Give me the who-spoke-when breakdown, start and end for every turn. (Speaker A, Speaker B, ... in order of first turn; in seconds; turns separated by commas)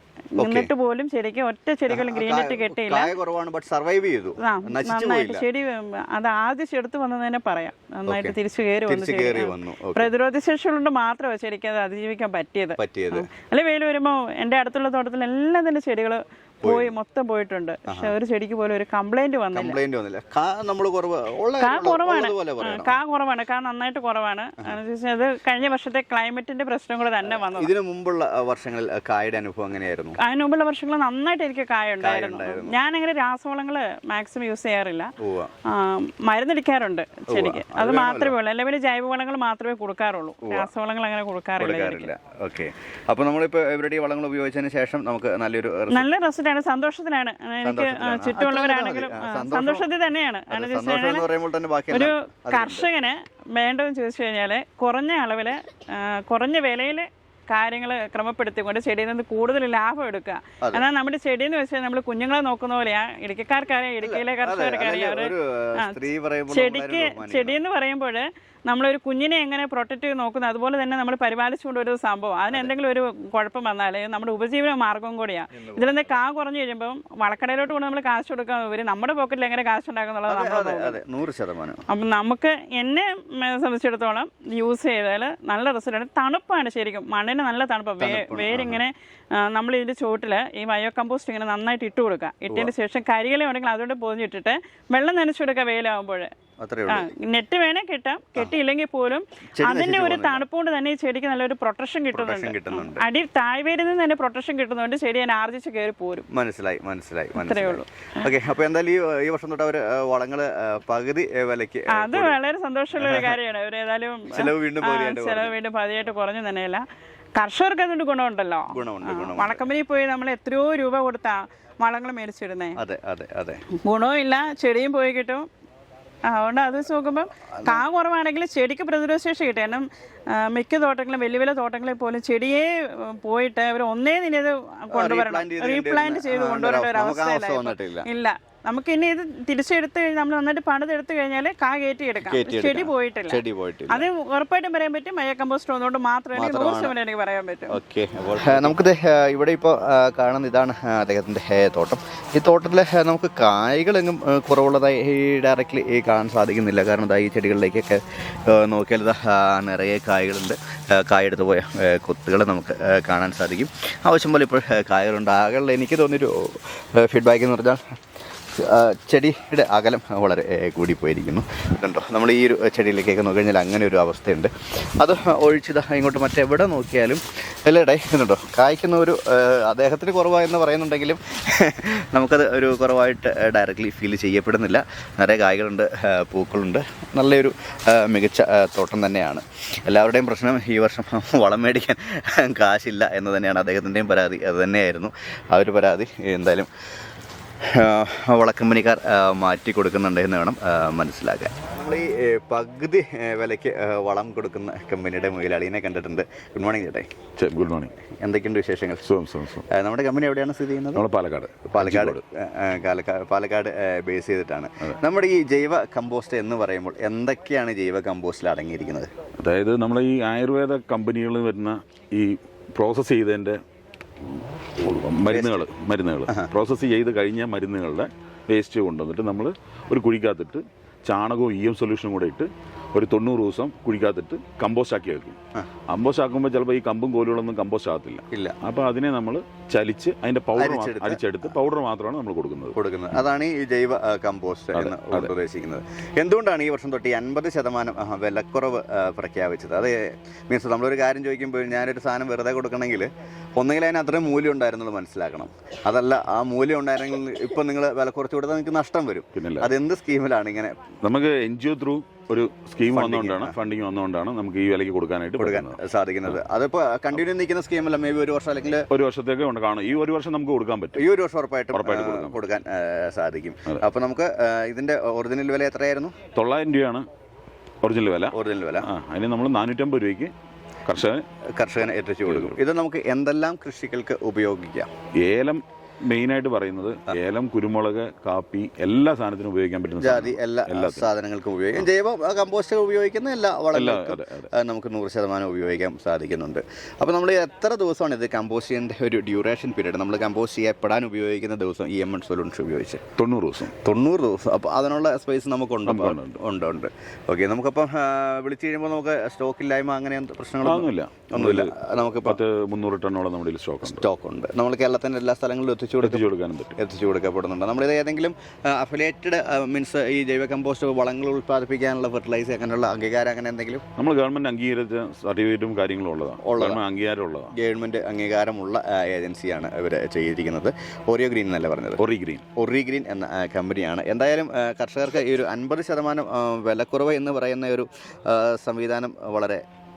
Speaker A: 0.4-0.7, Speaker B: 0.4-3.1, Speaker A: 1.9-5.4, Speaker B: 4.4-19.8, Speaker A: 8.1-8.3, Speaker A: 8.9-10.1, Speaker A: 12.8-13.3, Speaker A: 16.6-16.9, Speaker A: 17.9-18.1, Speaker A: 19.5-23.0, Speaker B: 21.6-27.7, Speaker A: 27.2-30.2, Speaker B: 30.2-35.1, Speaker A: 32.0-32.8, Speaker A: 35.2-35.5, Speaker B: 35.7-42.1, Speaker A: 37.3-38.3, Speaker A: 40.4-40.7, Speaker A: 41.6-46.1, Speaker B: 45.9-51.3, Speaker A: 47.6-49.9, Speaker A: 50.5-52.9, Speaker B: 51.9-81.0, Speaker A: 64.0-67.6, Speaker A: 75.5-76.2, Speaker A: 80.3-81.8, Speaker B: 81.9-96.3, Speaker A: 88.0-88.8, Speaker A: 96.6-97.1, Speaker B: 96.9-106.2, Speaker A: 99.5-100.4, Speaker A: 102.1-103.0, Speaker A: 106.3-112.4, Speaker B: 107.3-108.3, Speaker B: 111.9-116.8, Speaker A: 113.0-113.3, Speaker A: 114.3-115.5, Speaker B: 117.3-122.8, Speaker A: 118.7-119.7, Speaker A: 122.8-123.6, Speaker B: 123.8-125.4, Speaker B: 126.3-147.8, Speaker A: 134.9-138.1, Speaker A: 142.2-144.0, Speaker A: 146.3-146.9, Speaker A: 147.7-168.0, Speaker A: 168.5-196.7, Speaker A: 197.6-207.1, Speaker C: 207.4-207.9, Speaker A: 208.2-209.1, Speaker C: 209.0-209.6, Speaker A: 209.7-211.0, Speaker C: 210.9-212.2, Speaker A: 211.7-219.1, Speaker C: 219.4-223.6, Speaker C: 224.2-235.4, Speaker A: 225.2-225.7, Speaker C: 235.9-242.7, Speaker A: 238.3-238.6, Speaker A: 240.5-241.5, Speaker A: 242.7-260.9, Speaker C: 244.7-245.3, Speaker C: 259.3-259.7, Speaker C: 261.0-266.3, Speaker A: 262.9-263.6, Speaker A: 265.4-268.9, Speaker C: 268.9-271.1, Speaker A: 270.9-276.1, Speaker C: 271.7-272.4, Speaker C: 276.3-277.1, Speaker C: 277.8-278.3, Speaker A: 278.3-278.9, Speaker C: 278.9-280.3, Speaker C: 280.9-281.2, Speaker A: 281.5-284.9, Speaker C: 282.2-282.6, Speaker C: 285.2-291.1, Speaker A: 290.0-303.0, Speaker C: 293.7-294.5, Speaker C: 303.2-303.7, Speaker A: 303.8-312.4, Speaker C: 305.9-306.4, Speaker C: 310.6-314.0, Speaker A: 313.8-316.2, Speaker C: 316.0-316.8, Speaker A: 316.8-323.8, Speaker C: 323.9-327.5, Speaker A: 326.4-326.8, Speaker A: 327.5-339.6, Speaker C: 332.0-332.4